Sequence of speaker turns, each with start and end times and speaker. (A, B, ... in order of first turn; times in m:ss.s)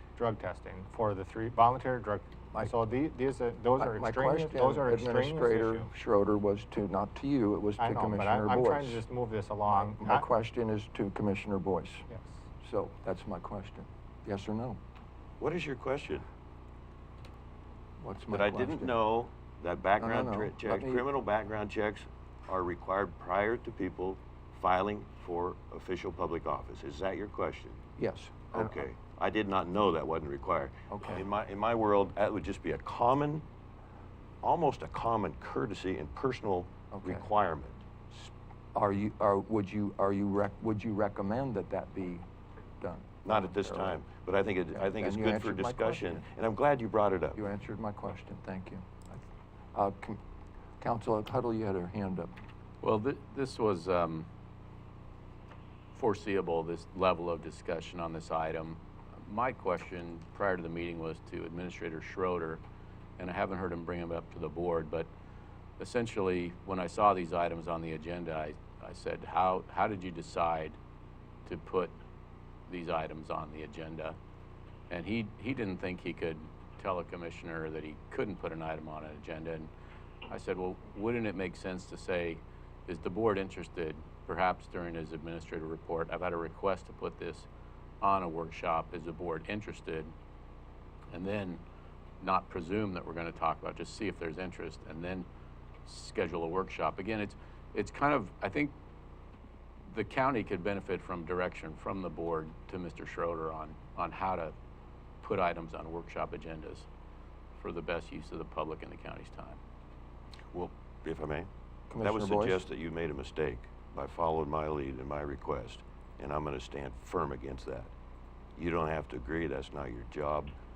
0:00.2-0:05.9 A
0:03.8-0:09.0 B
0:07.8-0:10.2 A
0:09.7-0:12.1 B
0:12.1-0:12.4 A
0:12.6-0:14.8 B
0:15.4-0:16.3 C
0:18.0-0:19.0 B
0:18.3-0:27.8 C
0:20.0-0:21.0 B
0:28.0-0:28.8 B
0:28.5-0:33.4 C
0:30.9-0:31.2 B
0:34.4-0:37.8 C
0:36.9-0:37.3 B
0:38.1-0:42.2 B
0:42.8-0:44.0 B
0:43.2-0:47.4 C
0:44.7-0:46.3 B
0:47.4-0:50.2 B
0:50.8-0:52.4 B
0:52.8-0:54.3 D
0:55.9-1:02.6 D
1:03.2-1:05.1 D
1:05.8-1:10.8 D
1:11.4-1:12.0 D
1:12.7-1:14.2 D
1:14.9-1:19.7 D
1:20.3-1:27.5 D
1:28.0-1:30.1 D
1:31.1-1:31.6 D
1:32.2-1:35.3 D
1:35.8-1:38.7 D
1:39.9-1:44.6 D
1:45.2-1:46.9 D
1:47.6-1:49.6 D
1:50.5-1:51.5 C
1:51.9-1:52.7 B
1:52.0-1:57.9 C
1:58.6-2:00.5 C